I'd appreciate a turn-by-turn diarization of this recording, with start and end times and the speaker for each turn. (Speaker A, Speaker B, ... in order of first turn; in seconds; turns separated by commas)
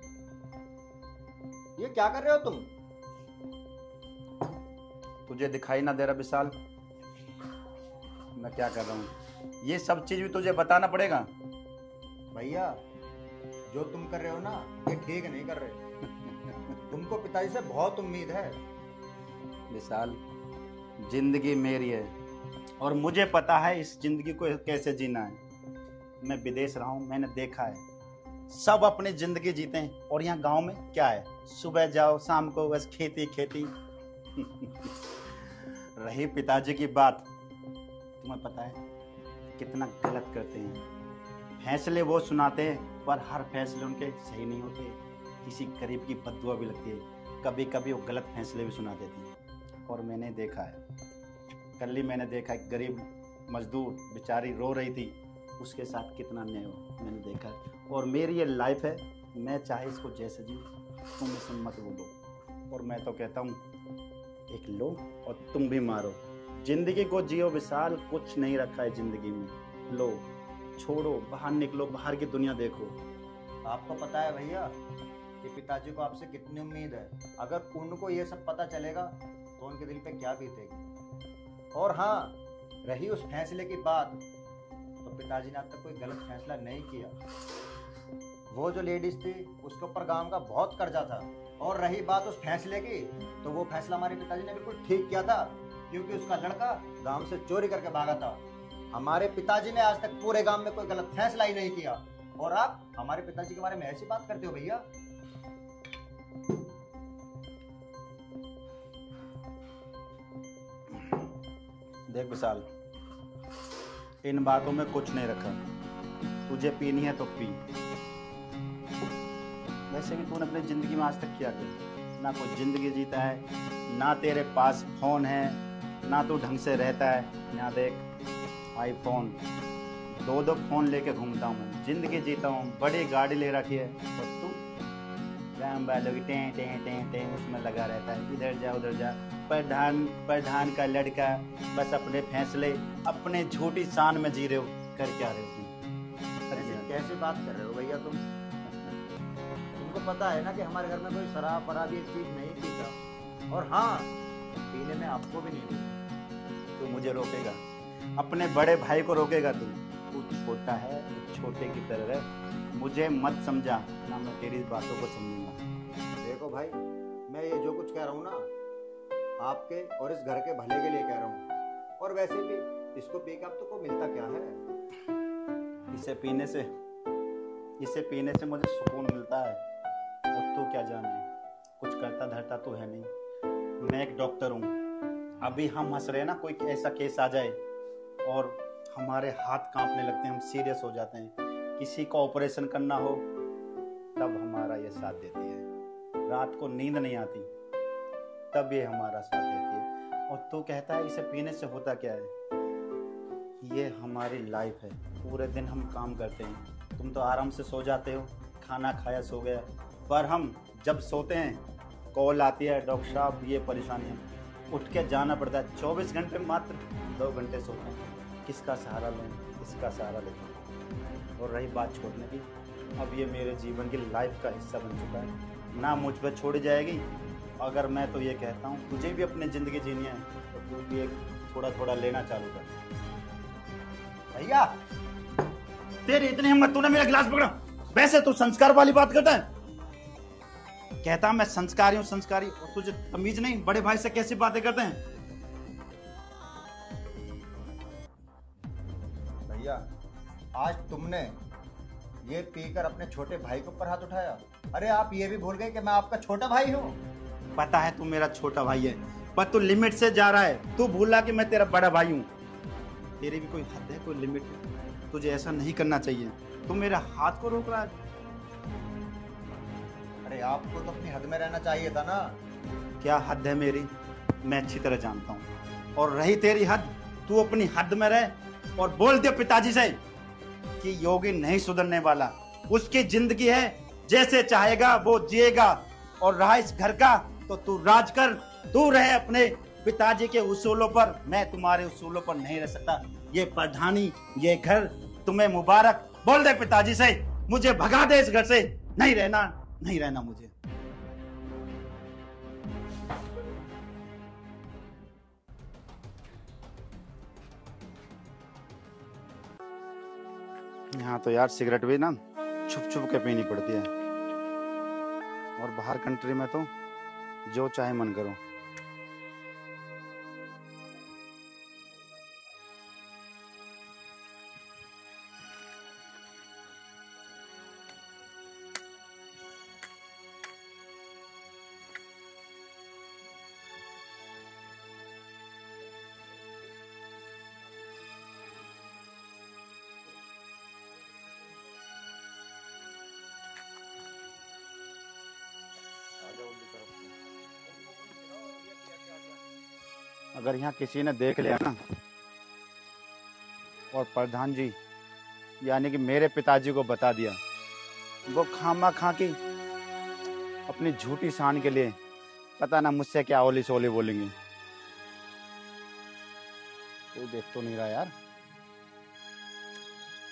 Speaker A: 1.8-2.7, Speaker B: 5.3-6.5, Speaker B: 8.3-11.3, Speaker A: 12.3-12.8, Speaker A: 13.7-15.8, Speaker B: 16.2-16.7, Speaker A: 16.9-18.6, Speaker B: 19.7-20.2, Speaker B: 21.0-22.1, Speaker B: 22.8-25.4, Speaker B: 26.2-27.8, Speaker B: 28.5-33.7, Speaker B: 34.3-35.1, Speaker B: 36.0-37.3, Speaker B: 38.2-38.8, Speaker B: 39.6-40.8, Speaker B: 41.6-49.3, Speaker B: 49.9-50.8, Speaker B: 51.8-62.1, Speaker B: 62.7-63.6, Speaker B: 64.5-70.3, Speaker B: 70.8-73.0, Speaker A: 73.6-74.7, Speaker A: 75.4-80.8, Speaker A: 81.8-84.2, Speaker A: 85.0-87.2, Speaker A: 88.5-98.4, Speaker A: 98.9-104.8, Speaker B: 112.1-112.7, Speaker B: 114.2-115.6, Speaker B: 116.5-117.6, Speaker B: 119.9-128.0, Speaker B: 128.7-129.4, Speaker B: 130.1-134.6, Speaker B: 135.6-145.8, Speaker B: 146.5-146.9, Speaker A: 146.5-148.2, Speaker A: 149.8-152.9, Speaker A: 153.5-156.0, Speaker B: 156.8-157.6, Speaker B: 158.2-165.6, Speaker A: 166.2-166.8, Speaker A: 167.3-168.5, Speaker A: 169.4-171.4, Speaker A: 172.0-174.6, Speaker B: 175.9-176.7, Speaker B: 177.8-179.6, Speaker B: 180.3-181.3, Speaker B: 181.8-183.1, Speaker B: 183.8-184.7, Speaker B: 185.4-187.6, Speaker B: 188.2-193.2, Speaker B: 194.2-195.7, Speaker B: 196.3-197.5, Speaker B: 198.5-202.3, Speaker B: 203.6-220.6, Speaker B: 221.4-227.1, Speaker B: 227.6-232.8, Speaker A: 234.3-234.8, Speaker B: 236.0-239.5, Speaker B: 241.0-245.0, Speaker A: 249.5-249.8, Speaker A: 250.5-251.4, Speaker A: 252.2-257.0, Speaker B: 257.6-262.3, Speaker B: 263.2-267.9, Speaker A: 270.2-272.4, Speaker B: 273.0-273.9, Speaker B: 274.4-280.0, Speaker B: 280.8-300.5, Speaker B: 310.9-313.9, Speaker B: 315.6-316.7, Speaker B: 317.5-318.4, Speaker A: 346.2-347.1, Speaker B: 350.4-351.8, Speaker B: 353.9-354.8, Speaker B: 355.6-357.4, Speaker B: 358.3-359.4, Speaker B: 360.7-362.0, Speaker B: 362.6-364.3, Speaker B: 367.1-368.1